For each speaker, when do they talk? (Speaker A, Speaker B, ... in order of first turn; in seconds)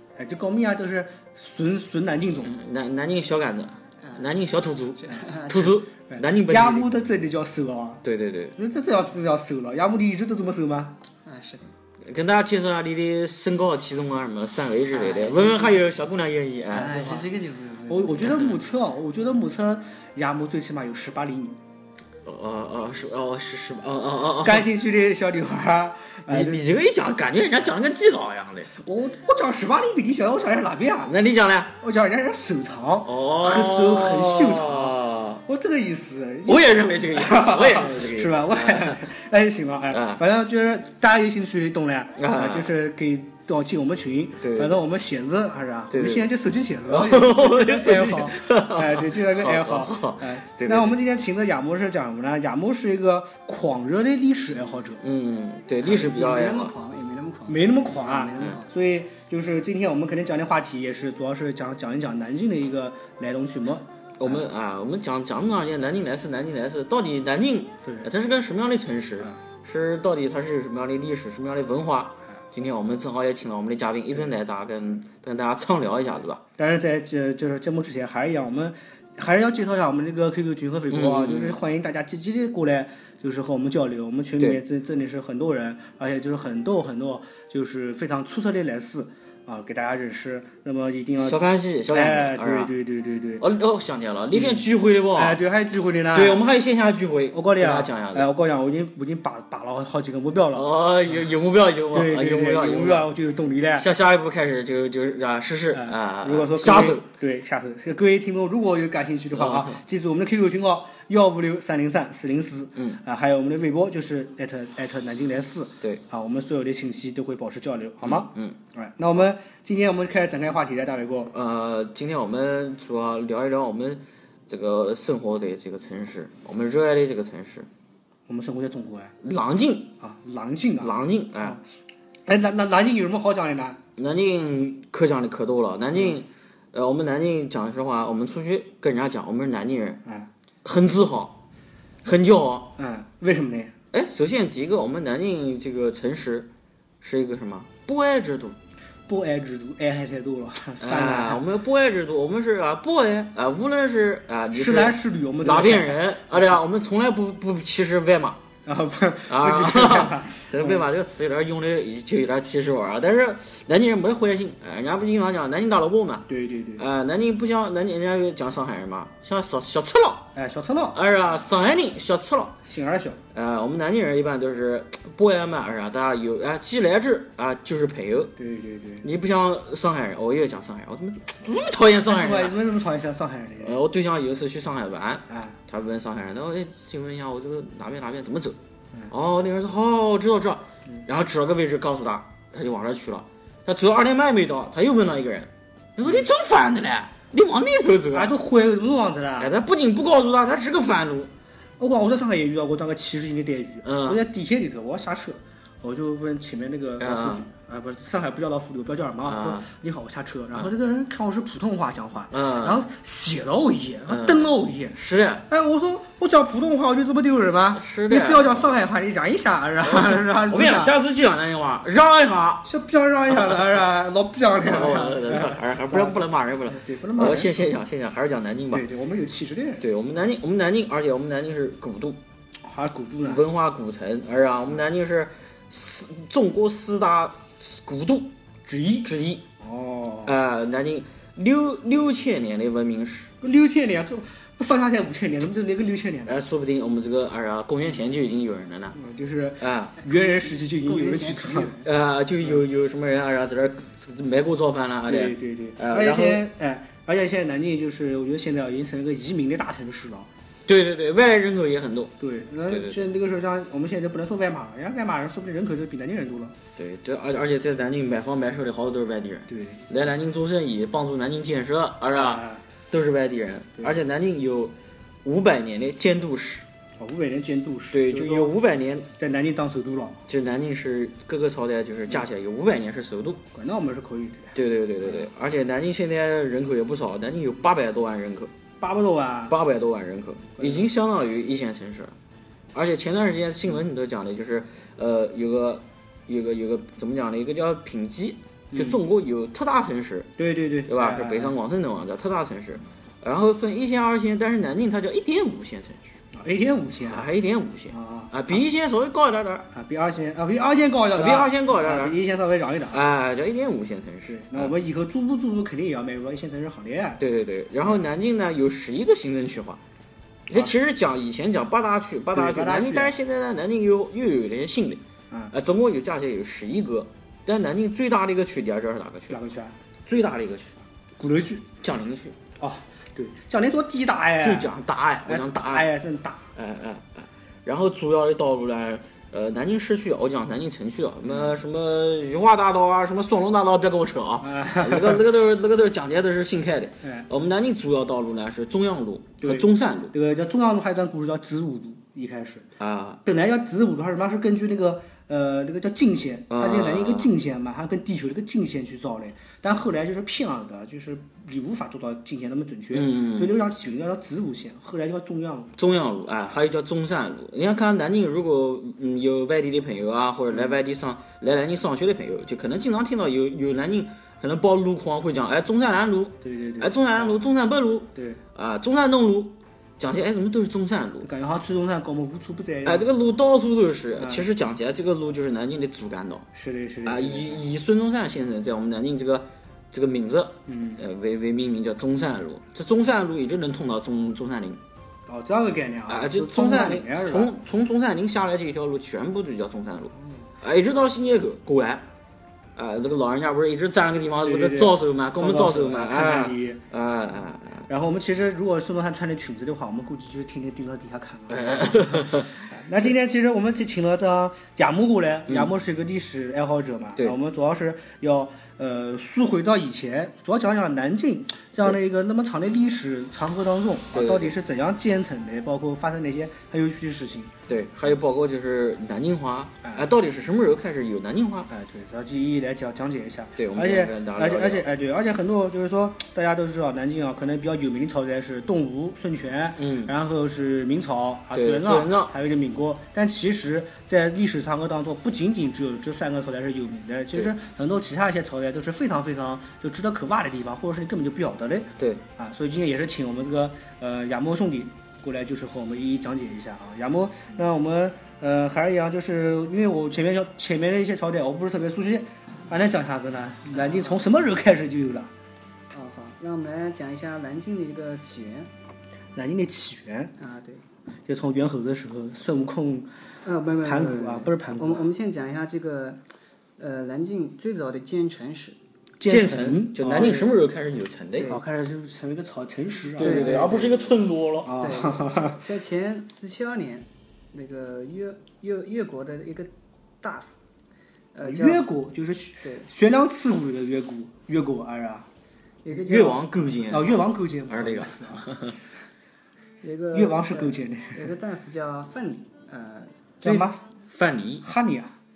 Speaker A: 0.2-2.6, 6.1-8.0, 8.6-11.0, 16.8-17.2, 17.9-21.6, 24.4-26.7, 28.8-31.2, 31.8-55.0, 57.5-64.4, 67.8-68.1, 76.6-93.5, 94.3-96.4, 97.3-100.7, 101.9-103.9, 105.7-121.3, 128.3-129.1, 130.0-131.6, 132.3-133.8, 140.1-140.3, 142.8-143.8, 149.1-151.4, 154.5-156.6, 158.7-160.8, 166.3-166.8, 170.3-171.0, 172.6-173.2, 178.3-179.1, 182.1-183.8, 185.3-185.6, 198.1-199.6, 201.8-221.0, 222.6-227.8, 228.7-229.8, 232.6-233.5, 239.6-240.3, 243.4-246.4, 248.9-251.8, 255.1-260.3, 262.2-266.6, 269.5-269.9, 272.1-272.6, 277.0-278.6, 279.1-280.2, 283.5-285.3, 288.8-289.6, 290.6-290.9, 298.7-299.0, 300.4-301.6, 306.3-307.3, 307.9-308.6, 309.7-313.1, 314.3-317.2, 322.3-323.2, 329.3-329.8, 331.2-331.7, 332.6-336.5, 341.3-341.6, 344.4-345.2, 349.4-352.7, 353.2-365.7, 376.4-377.4, 378.1-378.4, 381.2-383.1, 384.2-384.5, 386.5-387.6, 390.7-391.0, 395.3-397.6, 404.4-406.8, 407.9-427.6, 429.8-430.1, 431.7-465.3, 469.4-470.3, 471.3-473.1, 473.8-475.1, 479.2-480.6, 481.5-485.6, 491.4-495.3, 496.9-498.5, 500.1-501.3, 503.4-503.8, 504.6-505.1
Speaker B: 2.4-6.9, 8.0-8.6, 12.0-17.3, 18.2-18.5, 22.2-24.7, 26.3-28.7, 31.0-31.8, 33.0-35.4, 36.5-39.0, 39.9-40.2, 42.2-42.7, 44.4-44.8, 45.9-46.3, 46.9-50.9, 55.0-56.7, 64.2-76.4, 80.9-81.6, 91.2-92.7, 93.4-95.4, 96.1-98.3, 100.5-103.1, 103.7-107.0, 109.3-109.8, 118.0-118.6, 121.3-127.7, 129.2-129.9, 130.8-131.6, 134.0-140.0, 140.6-141.4, 142.0-142.8, 143.9-146.5, 147.0-148.6, 150.8-158.4, 159.3-170.3, 170.9-172.6, 173.3-178.3, 179.0-182.6, 183.6-188.6, 189.1-198.3, 199.4-201.3, 203.8-204.2, 207.0-207.5, 209.2-209.7, 212.3-212.8, 214.1-215.5, 217.8-218.8, 219.8-222.7, 224.6-228.9, 229.8-232.2, 233.2-239.4, 240.2-243.3, 246.3-249.0, 249.6-250.0, 251.8-256.4, 260.7-262.2, 262.7-263.0, 266.8-276.6, 277.9-279.1, 280.3-283.4, 284.6-288.5, 289.5-292.1, 292.7-300.3, 300.9-306.2, 307.0-309.7, 311.1-312.2, 312.9-314.7, 317.2-319.8, 320.5-329.4, 330.1-330.8, 331.8-332.4, 334.4-335.9, 336.6-350.1, 352.8-353.2, 356.5-357.3, 362.9-363.6, 365.8-381.3, 382.9-386.5, 387.0-394.8, 396.1-402.1, 402.8-407.9, 411.5-412.5, 424.1-424.5, 427.7-431.7, 433.6-434.9, 439.8-440.1, 441.5-442.3, 479.2-481.6, 483.2-485.0, 495.9-498.8, 504.1-504.7
Speaker C: 4.0-4.3, 5.0-5.8, 11.3-11.7, 14.9-15.8, 16.7-18.3, 55.8-58.7, 250.1-251.9, 463.7-464.2, 465.9-468.7, 470.4-470.8, 473.4-476.2, 476.8-478.8, 481.4-481.6, 483.2-484.1, 484.8-490.6, 491.3-491.9, 492.6-492.9, 495.8-496.5, 499.8-503.7